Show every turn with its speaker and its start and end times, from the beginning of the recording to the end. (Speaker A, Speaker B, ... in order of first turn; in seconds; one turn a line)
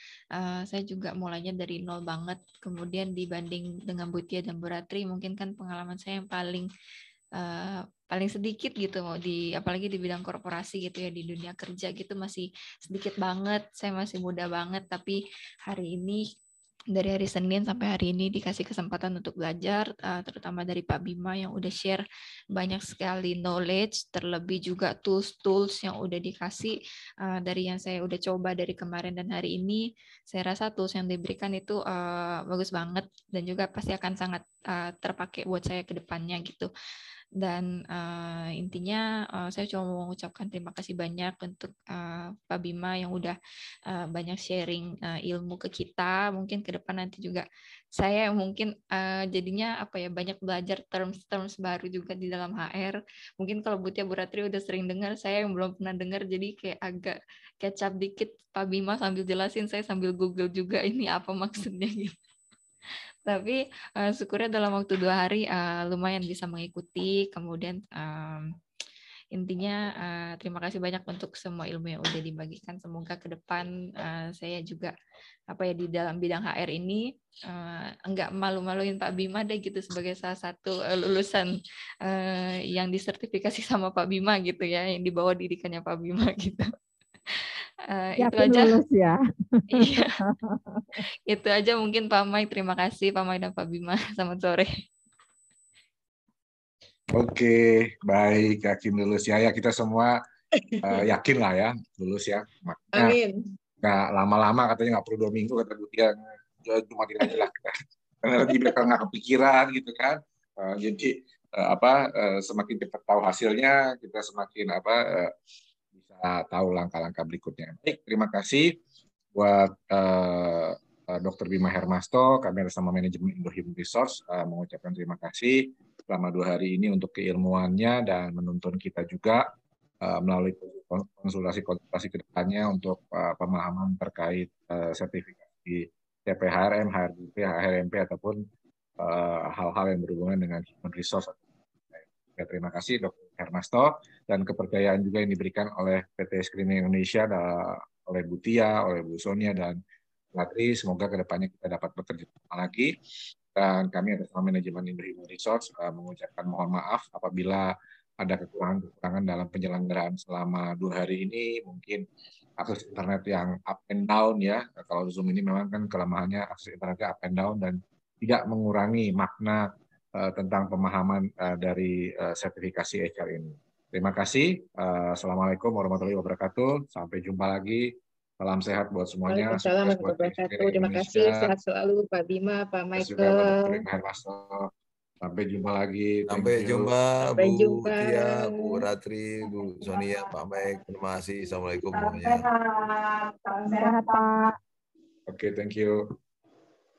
Speaker A: 0.3-6.7
Speaker A: 7.4-16.2
Speaker A: 16.9-36.7
Speaker A: 37.4-43.4
Speaker A: 43.9-62.1
Speaker A: 63.3-68.5
Speaker A: 69.3-74.9
Speaker A: 75.5-81.5
Speaker A: 82.0-86.7
Speaker A: 87.3-88.8
Speaker B: 88.2-89.2
Speaker A: 89.7-90.2
Speaker B: 89.7-91.0
Speaker A: 91.3-94.7
Speaker C: 97.1-100.2
Speaker D: 100.5-101.0
Speaker C: 100.8-103.2
Speaker D: 102.9-103.4
Speaker C: 103.8-115.3
Speaker C: 116.0-118.8
Speaker C: 119.3-129.4
Speaker C: 130.0-138.4
Speaker C: 139.0-141.4
Speaker C: 141.9-149.8
Speaker C: 150.3-153.0
Speaker C: 153.5-162.1
Speaker C: 162.6-181.5
Speaker D: 179.3-183.8
Speaker C: 183.0-184.7
Speaker C: 185.2-186.9
Speaker E: 186.3-192.5
Speaker D: 187.3-188.8
Speaker B: 193.6-194.5
Speaker C: 195.3-196.0